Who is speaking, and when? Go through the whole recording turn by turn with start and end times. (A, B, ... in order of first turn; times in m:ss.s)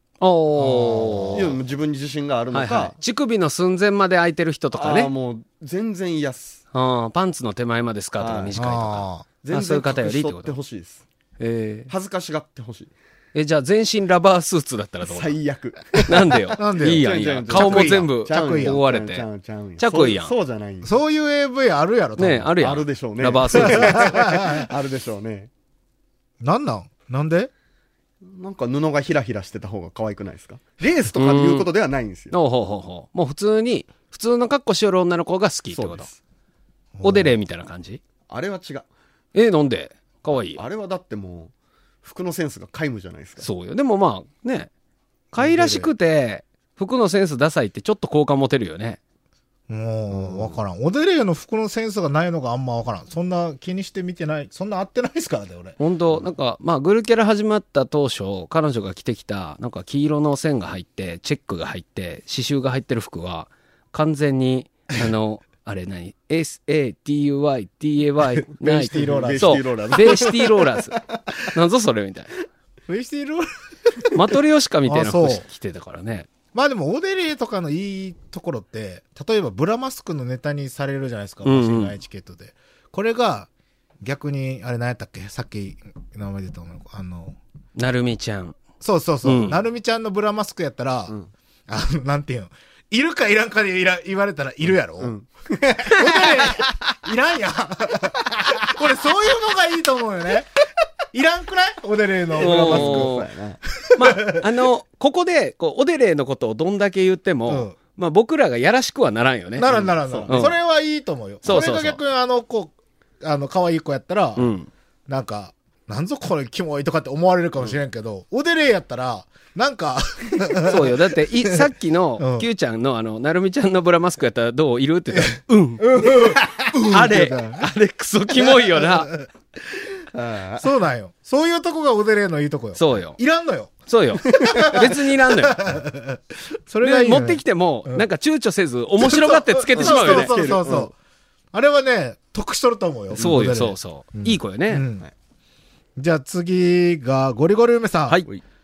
0:00.2-0:01.6 A
0:00.6-0:01.5 B
0:01.3-0:03.0 C
0:02.5-0:05.1 A
0:04.7-0:06.6 C
0:06.7-0:10.5 A
0:08.2-0:08.5 C
0:08.6-0:09.3 B
0:09.4-0:11.0 C
0:11.4-0:11.9 A
0:11.9-0:12.9 C
0:13.3-0:15.4 A
0:15.0-0:20.9 C
0:16.0-0:19.2 A
0:16.6-0:18.8 B
0:19.8-0:20.3 A
0:20.8-0:22.5 B
0:22.2-0:24.0 A
0:22.6-0:25.5 C
0:23.6-0:24.7 B
0:26.4-0:27.5 B
0:28.2-0:32.3 C
0:31.2-0:31.7 A
0:32.3-0:36.1 A
0:35.7-0:36.2 C
0:36.9-0:37.3 B
0:37.0-0:38.0 A
0:38.3-0:38.9 C
0:39.3-0:40.6 A
0:40.5-0:43.5 C
0:43.4-0:44.7 A
0:45.3-0:49.0 A
0:45.4-0:45.9 B
0:49.7-0:55.8 B
0:50.1-0:50.6 C
0:55.8-1:11.0 A
1:08.6-1:10.2 B
1:08.9-1:11.2 C
1:11.5-1:12.3 A
1:12.9-1:13.5 B
1:14.1-1:16.3 A
1:14.8-1:15.4 B
1:16.5-1:23.5 B
1:21.4-1:21.9 A
1:24.0-1:27.4 B
1:27.8-1:28.6 A
1:28.8-1:31.1 B
1:29.2-1:29.6 A
1:31.7-1:40.5 B
1:35.0-1:36.5 C
1:41.1-1:43.1 B
1:42.3-1:43.6 C
1:42.4-1:43.3 A
1:43.9-1:44.4 B
1:44.0-1:49.7 A
1:47.5-1:47.8 B
1:49.6-1:54.5 B
1:49.7-1:50.4 C
1:50.3-1:50.5 A
1:51.4-1:52.0 A
1:54.4-1:54.7 A
1:55.1-2:01.1 B
2:00.6-2:09.1 A
2:02.2-2:02.5 B
2:05.1-2:07.6 B
2:08.8-2:09.2 B
2:10.1-2:10.7 C
2:10.6-2:18.0 B
2:12.8-2:13.2 A
2:13.9-2:15.6 A
2:14.2-2:14.7 C
2:16.8-2:20.3 A
2:19.0-2:20.9 B
2:19.8-2:20.9 C
2:21.5-2:25.0 B
2:23.1-2:24.8 A
2:26.0-2:28.2 B